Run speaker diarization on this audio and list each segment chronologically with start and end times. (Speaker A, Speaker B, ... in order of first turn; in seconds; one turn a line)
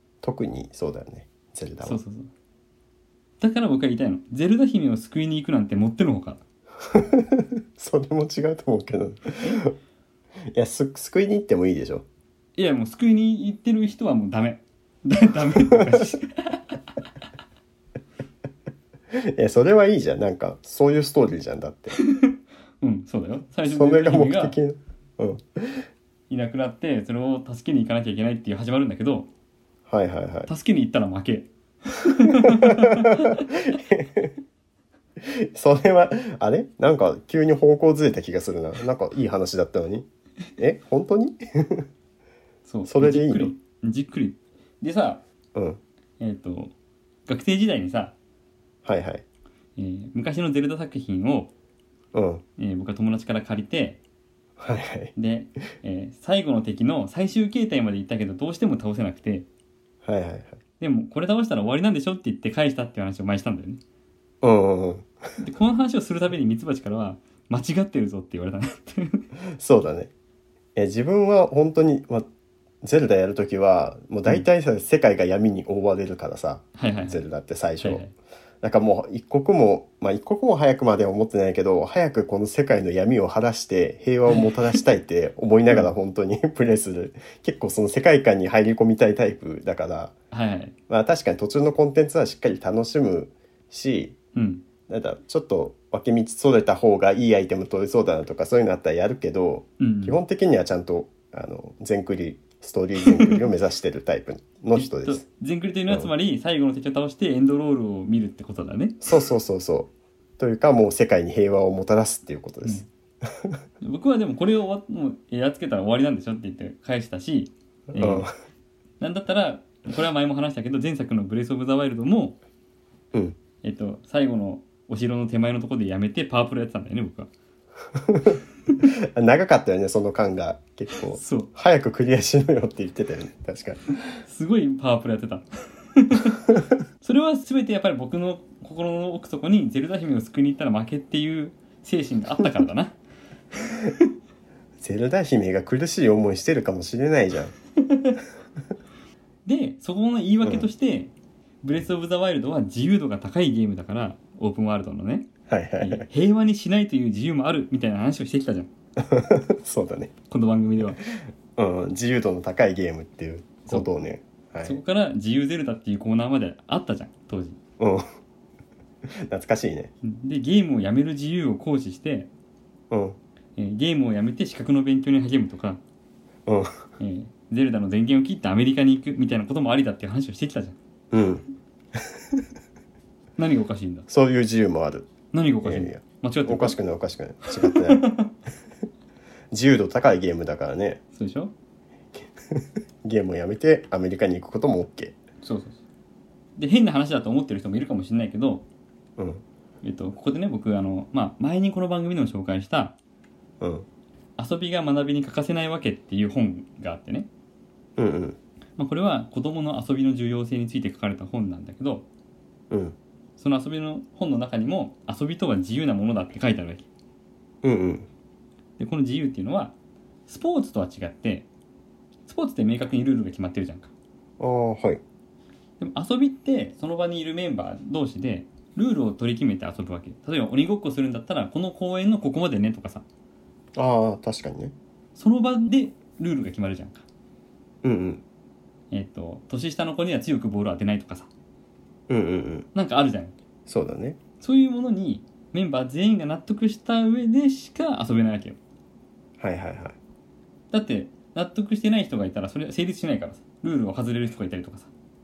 Speaker A: 0.2-2.0
Speaker B: 1.8-2.3
Speaker B: 3.4-6.4
Speaker A: 6.9-9.7
Speaker A: 10.5-12.1
Speaker B: 12.6-16.8
Speaker A: 15.7-16.2
Speaker A: 19.1-22.0
Speaker B: 22.0-24.6
Speaker A: 23.6-25.9
Speaker B: 26.3-29.3
Speaker A: 29.9-30.5
Speaker B: 30.5-33.5
Speaker A: 32.2-34.4
Speaker A: 35.2-41.9
Speaker B: 42.7-45.2
Speaker A: 42.9-43.5
Speaker B: 46.2-46.7
Speaker B: 47.3-48.1
Speaker A: 48.9-49.2
Speaker B: 49.8-51.5
Speaker A: 52.1-52.4
Speaker B: 52.6-54.0
Speaker A: 54.6-55.1
Speaker B: 55.1-59.5
Speaker A: 60.0-60.6
Speaker B: 60.8-63.8
Speaker A: 64.4-65.1
Speaker B: 65.4-69.3
Speaker A: 69.5-70.1
Speaker A: 70.8-72.3
Speaker A: 72.8-78.0
Speaker B: 76.8-77.2
Speaker B: 77.8-78.1
Speaker A: 78.6-90.2
Speaker B: 84.3-84.8
Speaker B: 90.3-90.7
Speaker A: 90.9-94.2
Speaker B: 94.3-94.7
Speaker A: 94.9-105.2
Speaker B: 99.8-100.2
Speaker B: 103.1-103.4
Speaker B: 104.8-109.1
Speaker A: 109.0-113.6
Speaker B: 113.8-118.3
Speaker A: 118.0-118.3
Speaker B: 119.0-122.4
Speaker B: 123.6-127.3
Speaker A: 127.9-134.2
Speaker B: 131.1-131.5
Speaker B: 134.2-143.0
Speaker B: 143.7-144.1
Speaker A: 144.8-147.5
Speaker B: 147.8-148.2
Speaker B: 149.5-151.1
Speaker A: 150.4-150.7
Speaker B: 151.6-155.3
Speaker A: 155.5-156.1
Speaker B: 155.8-158.7
Speaker A: 159.0-160.1
Speaker B: 160.3-161.0
Speaker A: 161.6-164.8
Speaker B: 164.6-167.6
Speaker A: 167.8-168.1
Speaker A: 169.3-169.9
Speaker B: 170.0-172.3
Speaker A: 172.9-173.2
Speaker B: 173.6-175.8
Speaker A: 176.5-176.8
Speaker B: 177.0-180.8
Speaker A: 181.1-181.4
Speaker A: 181.9-182.4
Speaker B: 183.4-184.1
Speaker A: 184.1-185.1
Speaker B: 185.3-186.8
Speaker A: 185.6-188.0
Speaker B: 187.6-188.3
Speaker A: 189.5-191.0
Speaker B: 191.1-191.5
Speaker A: 192.1-195.2
Speaker B: 195.4-195.8
Speaker B: 196.6-198.7
Speaker A: 199.2-199.4
Speaker B: 199.8-203.0
Speaker A: 203.6-203.9
Speaker B: 204.4-207.3
Speaker A: 208.0-208.4
Speaker B: 208.8-212.1
Speaker A: 212.7-213.0
Speaker B: 213.4-216.9
Speaker A: 217.6-218.1
Speaker B: 218.8-219.8
Speaker B: 220.3-221.5
Speaker B: 222.3-223.9
Speaker A: 224.4-225.0
Speaker B: 225.8-233.1
Speaker A: 233.8-234.7
Speaker B: 235.2-237.1
Speaker A: 237.8-238.2
Speaker B: 238.9-241.3
Speaker A: 242.1-242.7
Speaker B: 242.7-243.3
Speaker A: 243.7-244.2
Speaker B: 244.4-248.6
Speaker A: 249.4-250.0
Speaker B: 250.7-254.9